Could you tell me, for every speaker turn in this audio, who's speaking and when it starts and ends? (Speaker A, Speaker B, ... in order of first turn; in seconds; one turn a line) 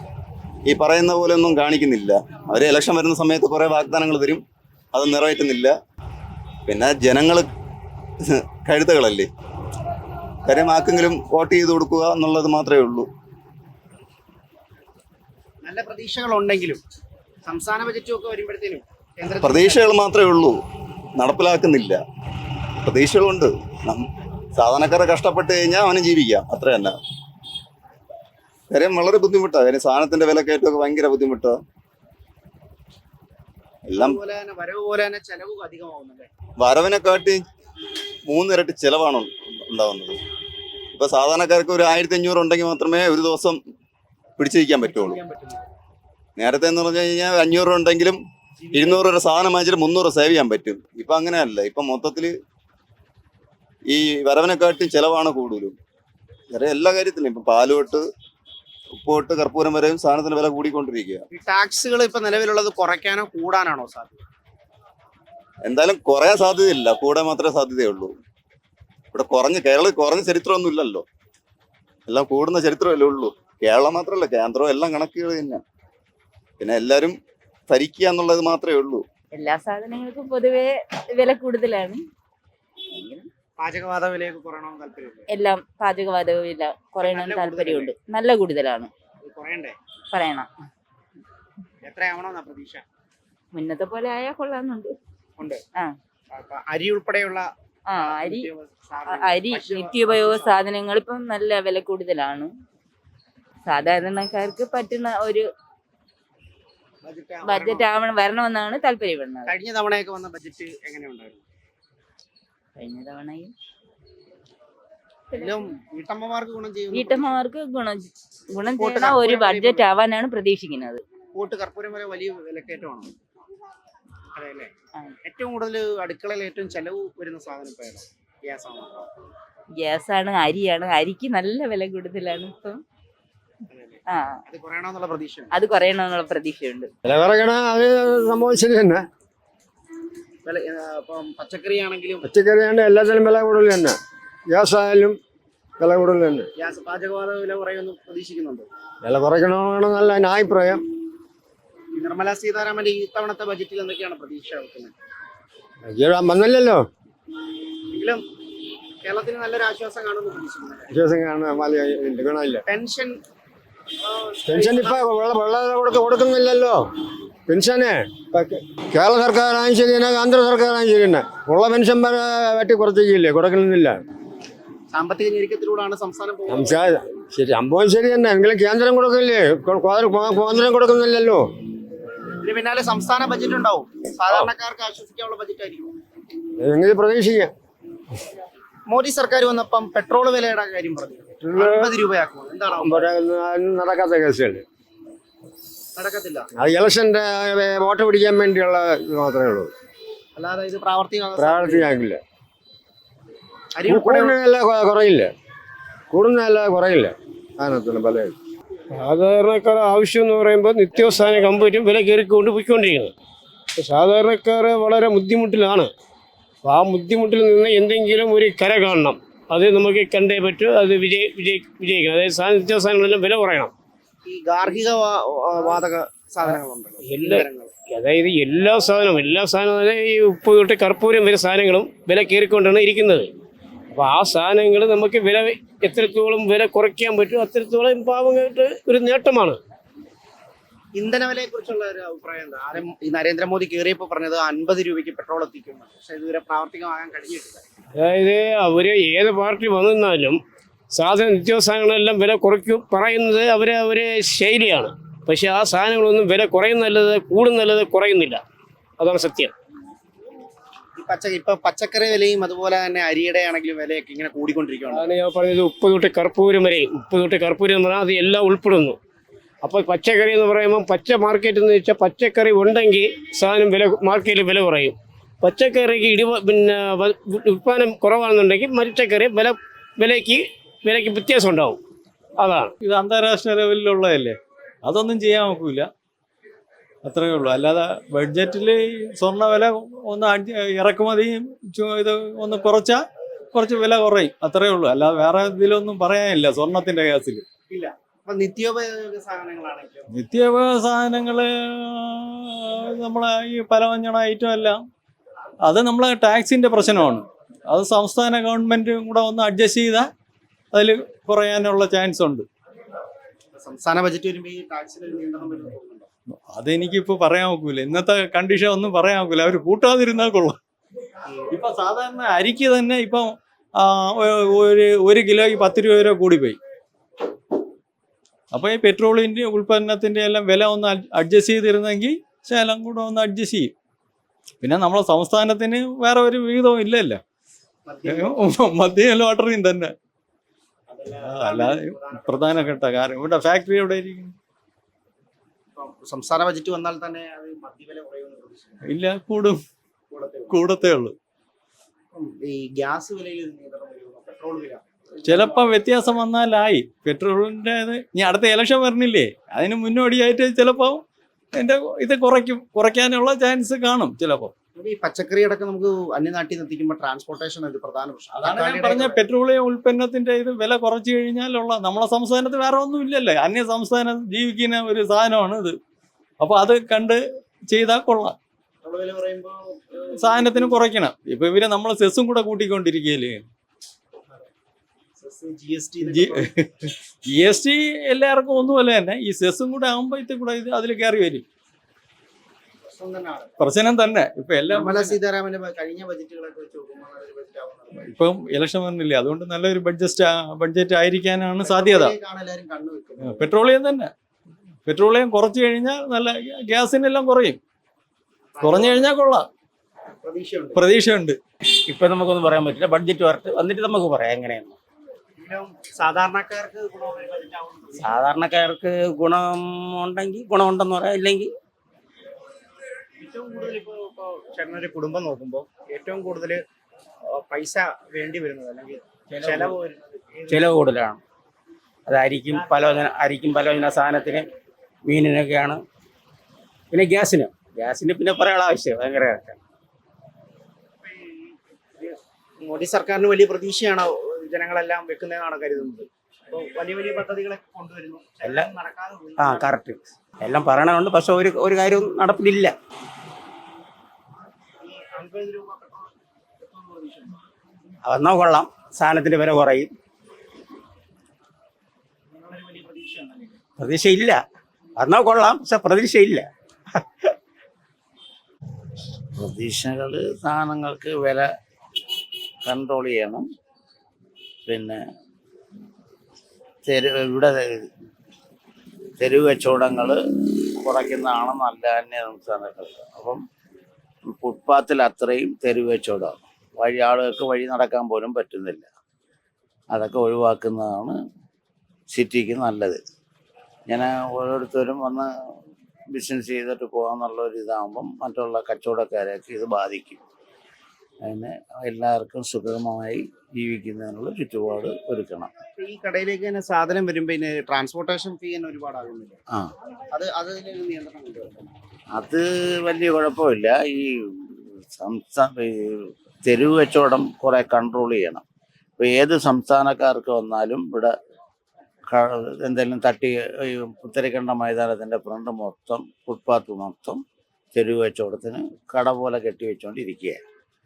Speaker A: 0.7-5.7
Speaker A: 6.7-7.5
Speaker A: 8.6-9.3
Speaker A: 10.4-13.1
Speaker B: 15.6-16.8
Speaker B: 17.4-19.8
Speaker A: 19.4-20.6
Speaker A: 21.1-22.0
Speaker A: 22.8-27.0
Speaker A: 28.7-31.6
Speaker A: 33.9-34.2
Speaker B: 33.9-36.3
Speaker A: 36.6-37.4
Speaker A: 38.3-40.2
Speaker A: 40.9-43.6
Speaker A: 44.4-45.2
Speaker B: 44.8-45.6
Speaker A: 46.4-48.2
Speaker B: 48.6-49.1
Speaker A: 48.7-52.3
Speaker A: 53.9-55.8
Speaker A: 56.5-58.0
Speaker A: 59.0-61.2
Speaker B: 61.3-64.2
Speaker A: 65.6-68.1
Speaker A: 69.1-71.0
Speaker A: 72.1-75.6
Speaker A: 76.6-77.2
Speaker A: 77.7-79.0
Speaker C: 79.3-82.0
Speaker C: 82.9-83.3
Speaker B: 83.6-85.3
Speaker C: 85.3-88.9
Speaker B: 87.0-87.9
Speaker B: 89.2-89.8
Speaker C: 90.1-90.5
Speaker B: 91.8-92.8
Speaker C: 93.5-94.9
Speaker B: 96.3-100.6
Speaker C: 97.9-98.5
Speaker C: 99.2-102.5
Speaker C: 103.7-105.5
Speaker B: 107.0-107.9
Speaker C: 107.4-109.5
Speaker B: 109.5-111.4
Speaker C: 112.8-113.5
Speaker B: 115.3-117.4
Speaker C: 116.9-121.0
Speaker B: 118.7-119.8
Speaker B: 121.3-123.1
Speaker B: 124.3-124.7
Speaker B: 125.2-129.1
Speaker C: 129.8-132.8
Speaker B: 133.7-135.5
Speaker C: 134.1-134.4
Speaker C: 135.5-136.9
Speaker D: 137.0-139.0
Speaker B: 140.4-142.2
Speaker D: 142.2-143.9
Speaker D: 144.5-145.2
Speaker D: 145.8-146.5
Speaker B: 146.6-148.7
Speaker D: 149.0-150.8
Speaker B: 151.9-154.9
Speaker D: 155.9-156.8
Speaker B: 157.9-158.2
Speaker B: 159.0-160.9
Speaker D: 160.9-162.6
Speaker B: 162.7-163.2
Speaker B: 164.0-165.0
Speaker D: 164.4-166.8
Speaker D: 167.5-174.0
Speaker B: 174.9-176.8
Speaker D: 176.5-181.4
Speaker B: 182.4-185.9
Speaker D: 186.6-187.5
Speaker B: 188.9-193.1
Speaker D: 191.4-191.9
Speaker D: 192.8-194.6
Speaker B: 195.9-196.5
Speaker D: 196.6-199.7
Speaker B: 200.3-201.9
Speaker D: 201.3-202.2
Speaker B: 203.7-204.4
Speaker D: 203.8-205.3
Speaker D: 206.1-208.3
Speaker E: 208.9-213.1
Speaker B: 211.2-211.4
Speaker E: 213.8-215.9
Speaker E: 216.6-223.7
Speaker B: 224.2-227.7
Speaker E: 227.1-233.3
Speaker E: 233.9-239.6
Speaker B: 240.9-247.6
Speaker E: 248.0-250.4
Speaker E: 250.9-258.4
Speaker E: 259.0-259.5
Speaker B: 261.0-265.1
Speaker E: 264.9-269.0
Speaker E: 269.6-281.8
Speaker E: 282.4-282.7
Speaker F: 282.8-285.9
Speaker F: 287.0-293.0
Speaker F: 293.5-297.4
Speaker B: 297.7-300.1
Speaker F: 300.1-304.8
Speaker F: 305.6-310.1
Speaker F: 310.7-312.5
Speaker B: 313.5-316.1
Speaker F: 316.5-320.6
Speaker F: 321.5-326.6
Speaker F: 328.5-333.7
Speaker F: 334.6-337.2
Speaker B: 337.9-338.4
Speaker F: 338.1-339.9
Speaker B: 340.9-342.8
Speaker F: 341.2-344.3
Speaker B: 345.7-348.8
Speaker F: 348.8-349.6
Speaker B: 350.1-350.6
Speaker F: 350.5-351.1
Speaker B: 352.1-355.5
Speaker F: 355.2-361.0
Speaker F: 361.5-364.5
Speaker B: 364.8-369.2
Speaker F: 368.3-375.8
Speaker F: 376.4-378.4
Speaker B: 378.8-380.7
Speaker F: 380.1-383.4
Speaker B: 385.2-386.5
Speaker F: 386.1-391.4
Speaker B: 392.8-393.6
Speaker F: 393.6-395.2
Speaker B: 394.7-398.1
Speaker F: 398.0-402.1
Speaker B: 401.6-403.5
Speaker F: 403.2-404.1
Speaker F: 404.9-407.6
Speaker B: 408.5-409.0
Speaker F: 408.6-409.5
Speaker B: 410.2-410.8
Speaker F: 410.7-411.4
Speaker G: 411.8-414.8
Speaker B: 415.4-418.2
Speaker G: 418.0-421.5
Speaker B: 423.2-426.6
Speaker B: 427.4-430.7
Speaker G: 429.3-429.8
Speaker G: 430.5-431.2
Speaker G: 432.1-434.5
Speaker G: 435.0-435.8
Speaker G: 436.9-439.6
Speaker B: 441.0-449.8
Speaker G: 448.4-448.7
Speaker G: 449.4-452.7
Speaker B: 454.8-457.4
Speaker G: 458.0-459.9
Speaker B: 462.3-463.6
Speaker G: 463.8-464.4
Speaker G: 464.9-466.5
Speaker H: 469.4-471.5
Speaker H: 472.6-473.4
Speaker H: 474.6-475.0
Speaker H: 476.9-477.8
Speaker H: 479.2-480.2
Speaker H: 480.8-483.4
Speaker H: 484.3-488.9
Speaker H: 489.9-491.1
Speaker H: 492.1-493.0
Speaker H: 493.9-495.3
Speaker H: 496.1-500.2
Speaker H: 501.2-505.5
Speaker B: 505.8-509.4
Speaker B: 510.1-511.7
Speaker H: 512.1-518.4
Speaker H: 519.0-521.1
Speaker H: 522.1-527.2
Speaker H: 527.7-530.4